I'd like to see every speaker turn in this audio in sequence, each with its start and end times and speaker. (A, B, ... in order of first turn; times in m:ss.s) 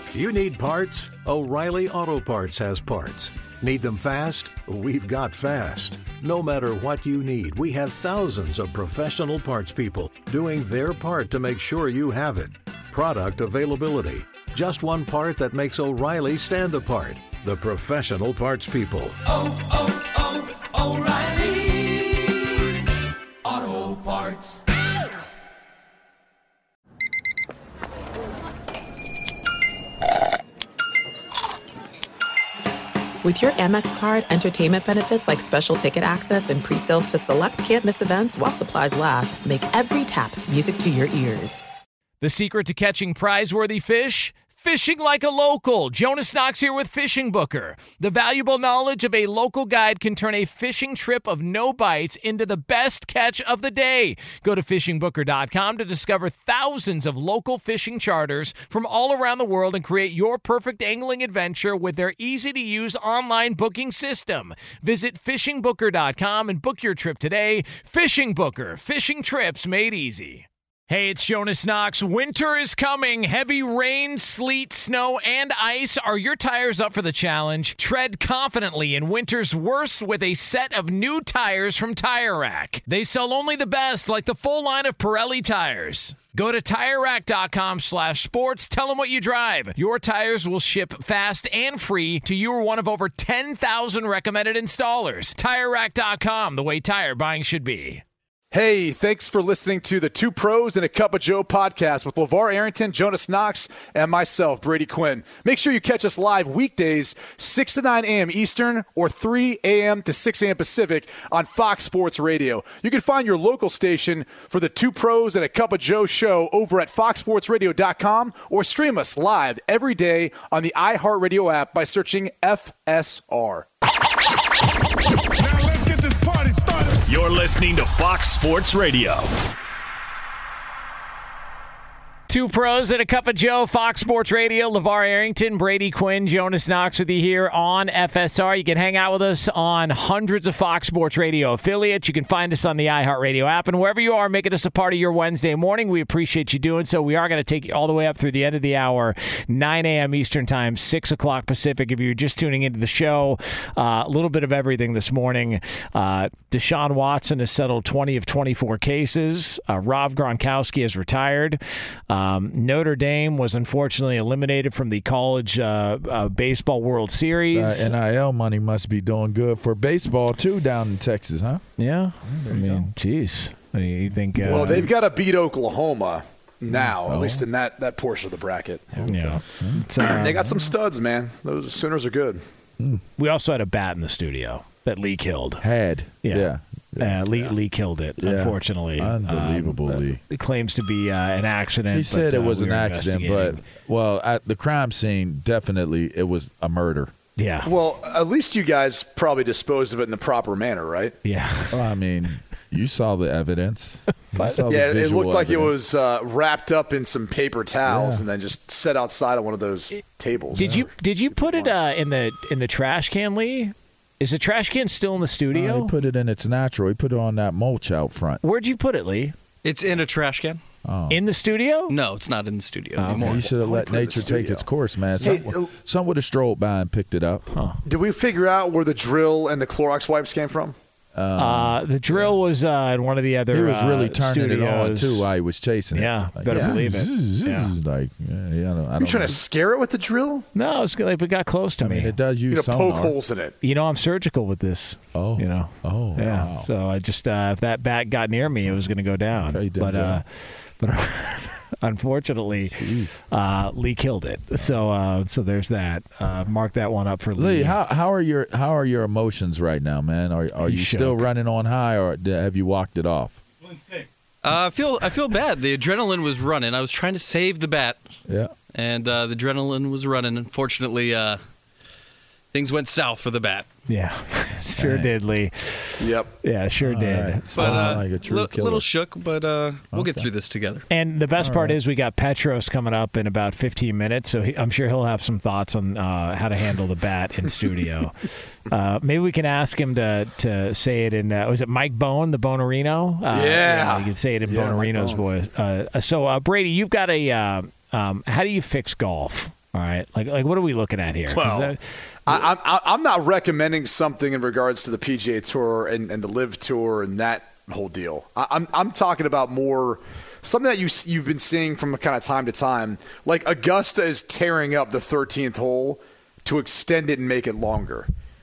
0:00.1-0:19.7 A
0:20.8-0:21.3 A
0:23.8-0:24.3 B
0:33.2-0:41.6 C
0:42.2-1:38.0 B
1:38.5-2:03.7 D
2:05.4-2:09.4 E
2:12.3-2:47.9 B
2:47.5-2:51.6 F
2:51.8-2:54.9 B
2:52.2-2:52.9 F
2:54.3-2:54.9 F
2:54.4-2:59.3 D
2:56.7-2:57.5 F
2:58.9-3:00.6 F
2:59.1-3:00.4 B
3:00.0-3:02.4 D
3:03.2-3:05.6 B
3:05.6-3:07.2 F
3:06.2-3:13.6 B
3:08.2-3:10.2 F
3:11.9-3:17.1 F
3:17.4-3:17.7 B
3:17.6-3:21.2 D
3:21.2-3:21.8 B
3:21.7-3:25.8 F
3:24.3-3:24.6 B
3:24.7-3:31.8 D
3:27.8-3:28.3 F
3:30.5-3:35.9 B
3:35.5-3:38.4 F
3:38.4-3:39.4 B
3:39.6-3:40.6 G
3:40.8-3:41.2 F
3:41.1-3:42.0 B
3:41.9-3:43.5 G
3:43.0-3:43.4 B
3:43.1-3:47.5 F
3:43.4-3:44.7 D
3:45.2-3:45.7 D
3:47.8-3:50.8 D
3:51.2-3:52.3 F
3:51.4-3:55.2 B
3:53.5-3:59.4 F
3:55.9-3:57.7 B
3:56.5-3:56.8 D
3:59.0-4:00.5 D
4:00.6-4:02.2 B
4:01.8-4:03.2 F
4:02.5-4:03.6 D
4:03.6-4:10.2 B
4:05.1-4:06.7 F
4:09.5-4:10.2 F
4:10.8-4:12.8 B
4:12.7-4:13.2 F
4:13.3-4:17.8 B
4:17.4-4:23.4 F
4:20.6-4:21.2 B
4:24.4-4:28.0 G
4:28.3-4:28.5 F
4:28.7-4:31.4 G
4:32.5-4:33.7 G
4:33.9-4:38.0 B
4:34.8-4:35.1 F
4:36.0-4:36.3 D
4:36.8-4:38.9 F
4:37.5-4:40.9 G
4:39.9-4:40.3 F
4:40.9-4:48.2 B
4:41.4-4:41.8 F
4:48.7-5:01.8 B
4:53.3-4:55.2 D
5:01.3-5:01.7 D
5:02.3-5:18.1 D